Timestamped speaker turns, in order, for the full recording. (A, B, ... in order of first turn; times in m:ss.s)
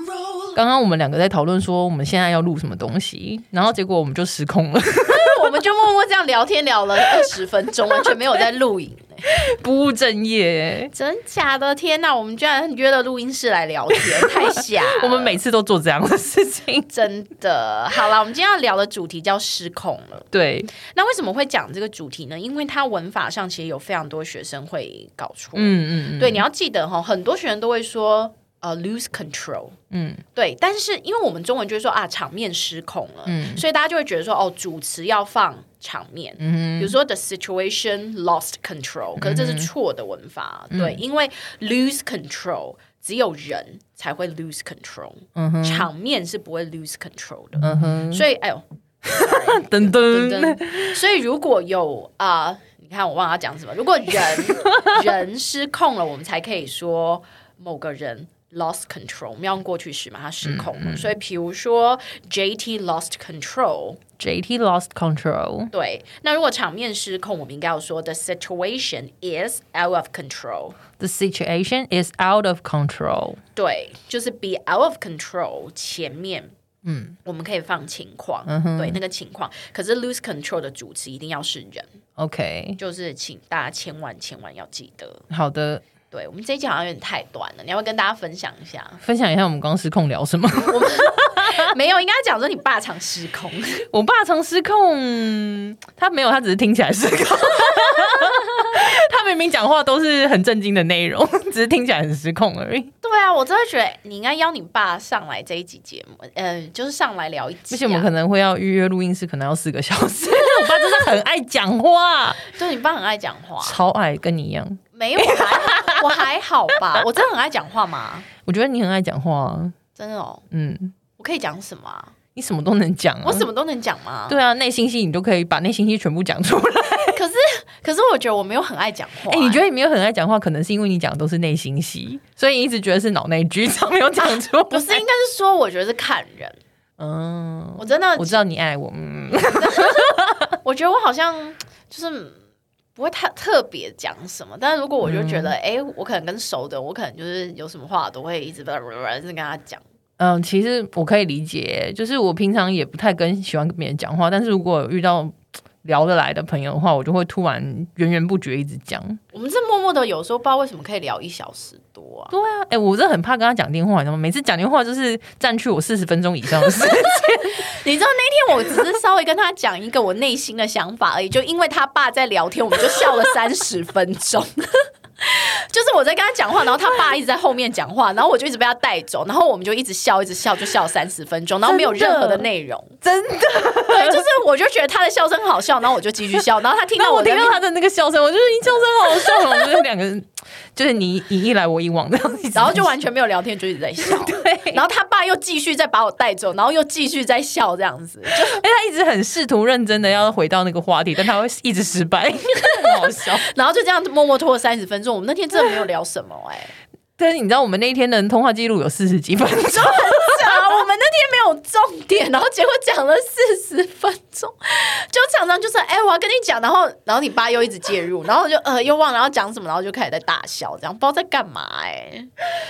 0:00.5-0:05.4 A
0:05.1-0:09.2 B
0:09.3-0:10.9 A
0:10.9-0:15.4 B
0:14.3-0:16.9 A
0:16.9-0:29.7 B
0:20.3-0:20.7 A
0:25.6-0:26.4 A
0:29.9-0:30.2 A
0:30.3-1:04.0 B
0:33.3-0:33.6 A
0:36.4-0:36.9 A
0:39.2-0:39.7 A
0:40.7-0:41.0 A
0:45.4-0:45.9 A
0:47.6-0:48.2 A
0:49.0-0:51.0 A
1:00.4-1:01.2 A
1:04.2-1:05.7 A
1:05.7-1:10.8 B
1:11.0-1:13.4 A
1:13.5-1:16.5 B
1:16.8-1:17.2 A
1:17.2-1:21.9 B
1:18.5-1:19.0 A
1:22.2-1:22.8 A
1:22.8-1:25.2 B
1:25.3-1:25.8 A
1:26.1-1:29.0 B
1:29.0-1:31.7 A
1:30.7-1:33.9 B
1:33.9-1:42.9 A
1:43.0-1:48.1 B
1:47.7-1:52.4 A
1:52.4-1:53.8 B
1:53.6-1:56.2 A
1:54.9-1:58.3 B
1:58.4-1:59.7 A
2:00.0-2:00.4 B
2:00.5-2:00.9 A
2:01.2-2:02.1 B
2:02.4-2:03.5 A
2:03.2-2:04.4 B
2:04.3-2:07.2 A
2:07.1-2:09.6 B
2:09.3-2:15.0 A
2:14.7-2:16.6 B
2:17.0-2:20.3 A
2:17.8-2:18.4 B
2:19.6-2:22.4 B
2:22.9-2:29.8 B
2:25.0-2:25.5 A
2:30.2-2:39.2 A
2:39.3-2:42.3 B
2:42.3-2:47.6 A
2:47.5-3:02.9 B
3:01.7-3:02.4 A
3:03.0-3:04.3 A
3:03.9-3:07.6 B
3:07.0-3:12.9 A
3:12.5-3:18.6 B
3:14.0-3:14.8 A
3:18.4-3:23.4 A
3:22.8-3:26.7 B
3:27.2-3:30.7 A
3:29.7-3:42.3 B